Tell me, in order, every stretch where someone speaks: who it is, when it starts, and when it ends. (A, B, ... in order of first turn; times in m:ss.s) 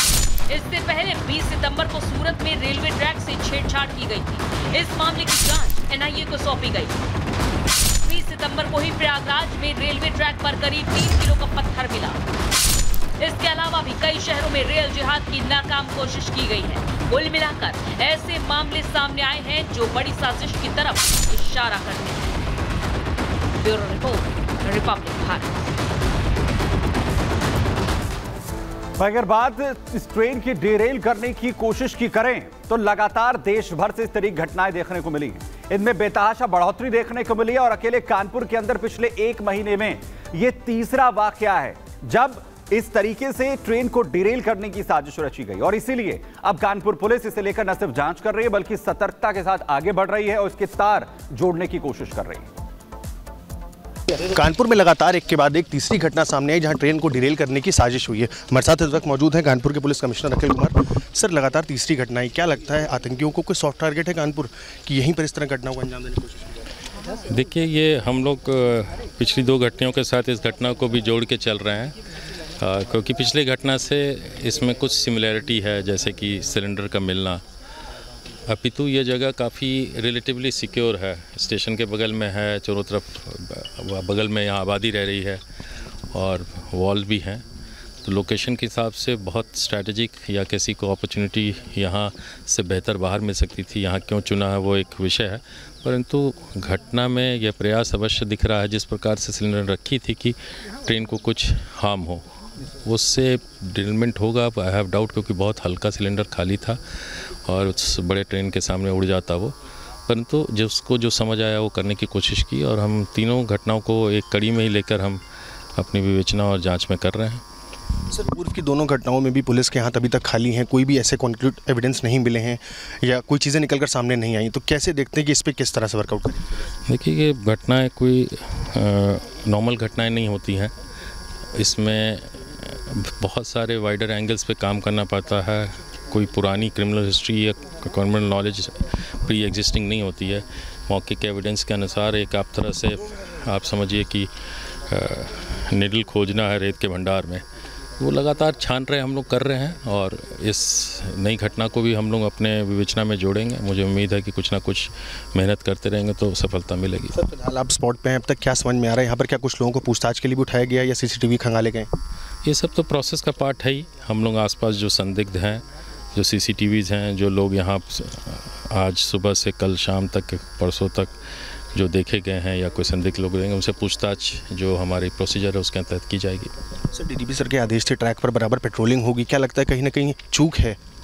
0:00.5-0:07.0 A
0:08.0-0:12.2 A
0:13.2-0:22.4 A
0:23.6-0:25.5 A
0:29.0-0:52.5 B
0:54.2-1:06.4 C
1:07.3-1:11.9 D
1:12.6-1:17.4 D
1:18.5-1:25.4 D
1:26.1-1:27.4 D
1:28.0-1:42.2 D
1:42.8-1:49.5 D
1:50.1-1:55.2 D
1:55.8-1:57.4 D
1:58.1-2:06.6 C
2:06.9-2:10.7 D
2:11.6-2:24.3 D
2:24.9-2:27.4 D
2:28.0-2:37.1 D
2:37.1-2:41.9 C
2:42.4-2:45.6 D
2:46.1-2:51.1 D
2:51.7-2:56.5 D
2:56.9-3:00.8 C